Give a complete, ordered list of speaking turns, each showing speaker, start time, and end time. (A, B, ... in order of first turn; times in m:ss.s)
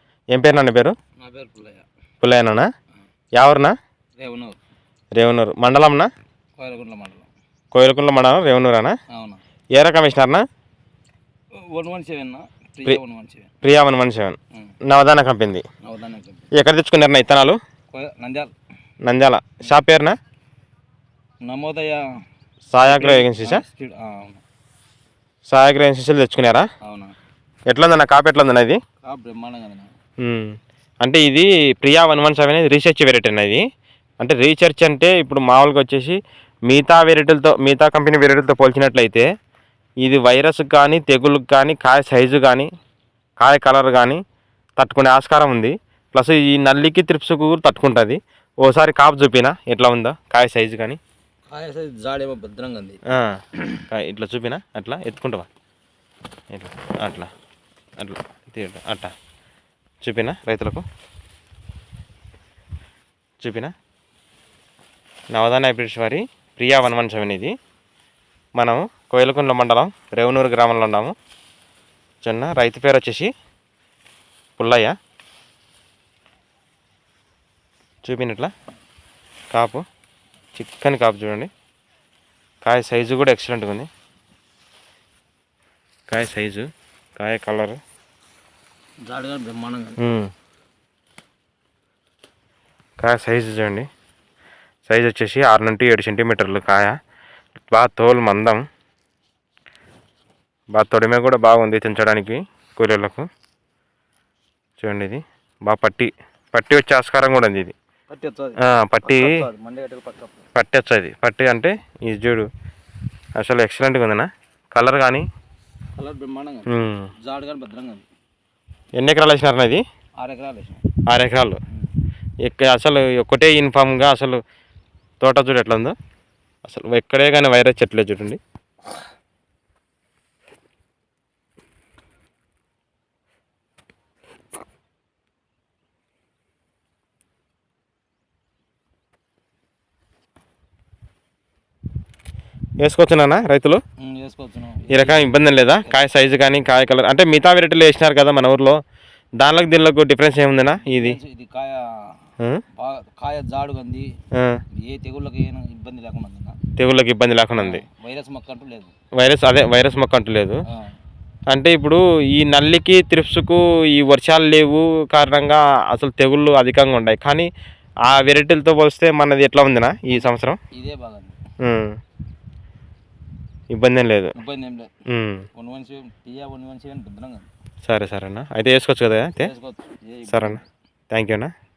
0:00.3-0:00.9 A
0:01.2-0:01.8 B
0:02.2-0:02.7 A
0:03.4-0:03.8 A
0:04.2-0:04.6 B
0:05.2-0:06.1 A
0:06.6-0:07.3 B
0:07.7-0:09.0 A
0:09.1-0:09.4 B
0:09.8-0:10.4 A
0:11.7-0:13.5 B
0:13.6-0:14.4 A
0:14.9-0:15.6 A
0:15.8-0:16.5 B
0:16.5-0:17.6 A
0:17.9-0:18.5 B
0:19.0-0:20.2 A
0:21.4-0:22.0 B
0:22.7-0:23.6 A
0:22.8-0:24.4 B
0:25.5-0:26.7 A
0:26.8-0:27.1 B
0:27.7-0:28.8 A
0:29.0-0:29.9 B
0:30.2-0:33.6 A
0:34.2-0:36.2 A
0:36.7-0:39.3 A
0:40.0-0:42.7 A
0:43.4-0:44.2 A
0:44.8-0:51.0 A
0:51.5-0:53.0 B
0:53.6-0:53.8 B
0:53.9-0:55.5 A
0:56.5-0:57.3 A
0:58.0-0:59.1 A
1:00.0-1:00.8 A
1:03.4-1:03.7 A
1:05.3-1:07.5 A
1:08.6-1:11.1 A
1:12.2-1:13.3 A
1:14.6-1:14.9 A
1:18.0-1:18.5 A
1:19.5-1:19.8 A
1:20.5-1:21.5 A
1:22.6-1:23.9 A
1:26.1-1:27.8 A
1:29.0-1:30.0 B
1:30.0-1:30.3 A
1:33.0-1:33.9 A
1:34.9-1:36.9 A
1:37.7-1:38.6 A
1:40.7-1:43.2 A
1:44.8-1:47.7 A
1:48.1-1:50.4 B
1:48.6-1:49.3 A
1:50.5-1:52.5 A
1:53.4-1:55.2 A
1:56.0-1:58.0 B
1:56.7-1:57.1 A
1:59.0-1:59.8 A
2:00.2-2:00.8 B
2:01.1-2:01.6 A
2:02.4-2:04.4 A
2:05.2-2:05.9 A
2:06.6-2:08.4 A
2:22.8-2:23.8 A
2:24.0-2:26.1 B
2:24.9-2:28.8 A
2:29.4-2:31.2 A
2:30.8-2:32.2 B
2:32.8-2:34.1 B
2:34.7-2:36.6 B
2:36.8-2:37.8 A
2:37.6-2:38.9 B
2:39.2-2:40.6 A
2:41.5-2:47.5 A
2:48.0-2:50.6 A
2:50.1-2:51.4 B
2:51.6-2:52.0 A
2:53.7-2:54.3 A
2:54.3-2:55.0 B
2:55.1-2:55.4 A
2:55.5-2:57.5 B
2:57.8-2:59.5 A
2:59.4-3:00.6 B
3:00.3-3:01.5 A